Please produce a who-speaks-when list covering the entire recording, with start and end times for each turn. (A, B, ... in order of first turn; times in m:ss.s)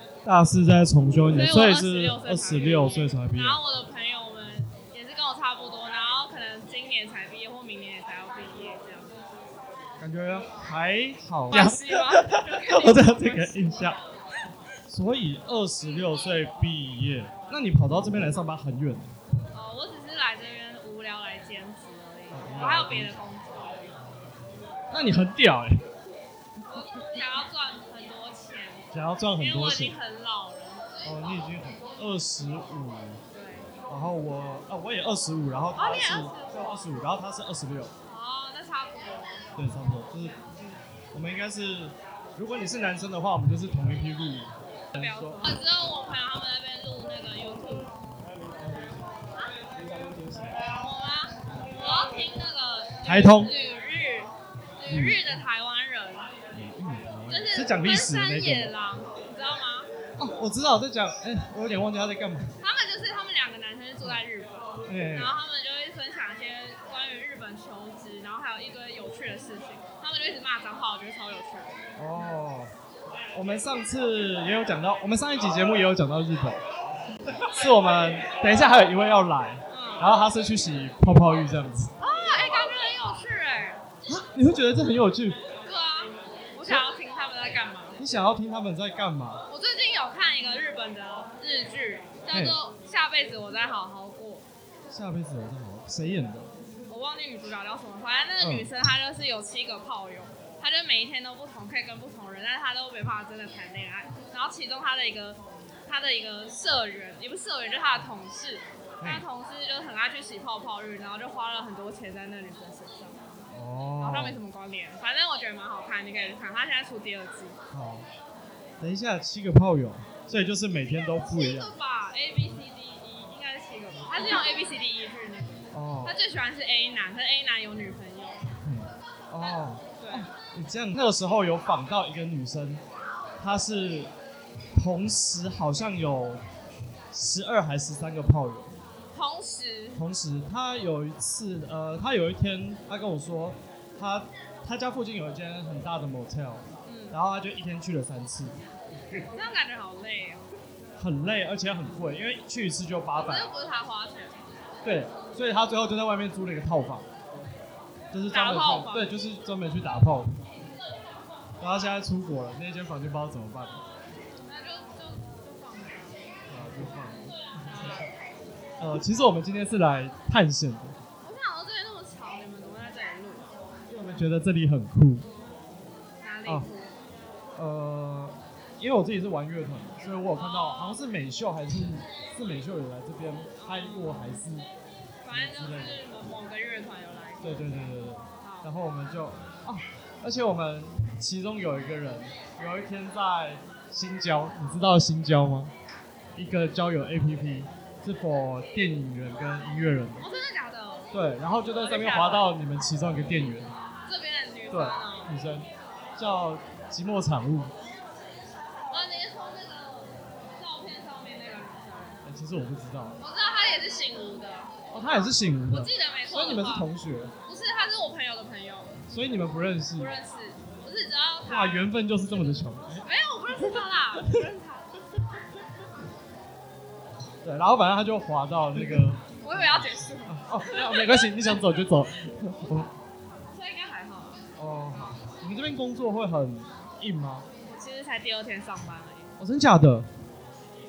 0:00.2-0:03.6 A
0:01.3-0:09.2 B
0:10.0-0:14.0 A
0:11.5-0:13.9 B
0:14.9-0:19.1 A
0:19.5-0:23.9 B
0:22.3-0:23.2 A
0:24.9-0:25.8 A
0:26.6-0:31.1 B
0:28.9-0:30.0 A
0:31.0-0:33.2 A
0:33.3-0:33.7 B
0:33.9-0:37.9 A
0:35.8-0:36.8 B
0:38.0-0:39.5 B
0:39.6-0:40.4 A
0:41.1-0:45.6 A
0:44.9-0:47.9 B
0:50.7-0:56.3 B
0:53.0-0:53.5 A
0:54.9-0:55.2 A
0:56.5-0:58.7 A
0:57.3-0:59.9 B
1:00.2-1:02.5 A
1:02.6-1:11.8 B
1:04.9-1:05.4 A
1:12.0-1:12.7 A
1:13.3-1:16.6 A
1:17.4-1:21.9 A
1:19.7-1:20.1 B
1:22.0-1:23.8 B
1:24.1-1:25.4 A
1:25.6-1:28.0 B
1:28.0-1:29.4 A
1:29.5-1:34.5 B
1:32.3-1:32.6 A
1:34.9-1:36.5 A
1:36.9-1:53.2 B
1:38.4-1:38.7 A
1:49.0-1:49.2 A
1:53.5-1:54.4 A
1:54.0-1:57.6 B
1:57.7-1:58.1 A
1:58.8-2:01.7 A
2:01.2-2:08.4 B
2:05.7-2:06.2 A
2:08.6-2:12.8 A
2:10.0-2:10.3 B
2:13.4-2:14.1 A
2:14.8-2:16.4 A
2:17.1-2:18.8 A
2:19.1-2:20.0 B
2:19.9-2:28.6 A
2:26.8-2:27.2 B
2:29.2-2:30.5 B
2:31.0-2:33.5 A
2:33.2-2:34.4 B
2:34.8-2:37.1 A
2:38.1-2:40.3 A
2:38.3-2:39.1 B
2:41.6-2:43.8 A
2:44.4-2:46.3 B
2:46.5-2:47.3 A
2:47.6-2:48.1 B
2:48.8-2:51.0 A
2:51.2-2:53.5 B
2:53.9-2:55.3 A
2:56.2-2:57.0 B
2:57.6-3:04.7 A
3:00.3-3:01.0 B
3:03.6-3:04.4 B
3:05.2-3:08.7 B
3:05.3-3:06.0 A
3:07.4-3:15.7 A
3:16.4-3:20.2 A
3:20.2-3:22.6 B
3:21.1-3:23.7 A
3:24.0-3:25.4 B
3:24.7-3:27.7 A
3:28.9-3:32.2 B
3:32.2-3:33.2 A
3:33.2-3:34.8 B
3:34.9-3:37.3 A
3:35.7-3:36.9 B
3:37.5-3:39.0 B
3:39.1-3:40.2 A
3:40.0-3:41.9 B
3:41.4-3:43.0 A
3:43.0-3:44.9 B
3:44.2-3:44.6 A
3:47.4-3:49.4 A
3:49.3-3:51.3 B
3:50.3-3:52.9 A
3:53.5-3:54.4 B
3:54.6-3:57.5 A
3:54.9-3:55.2 B
3:57.7-3:59.3 B
3:59.4-4:00.1 A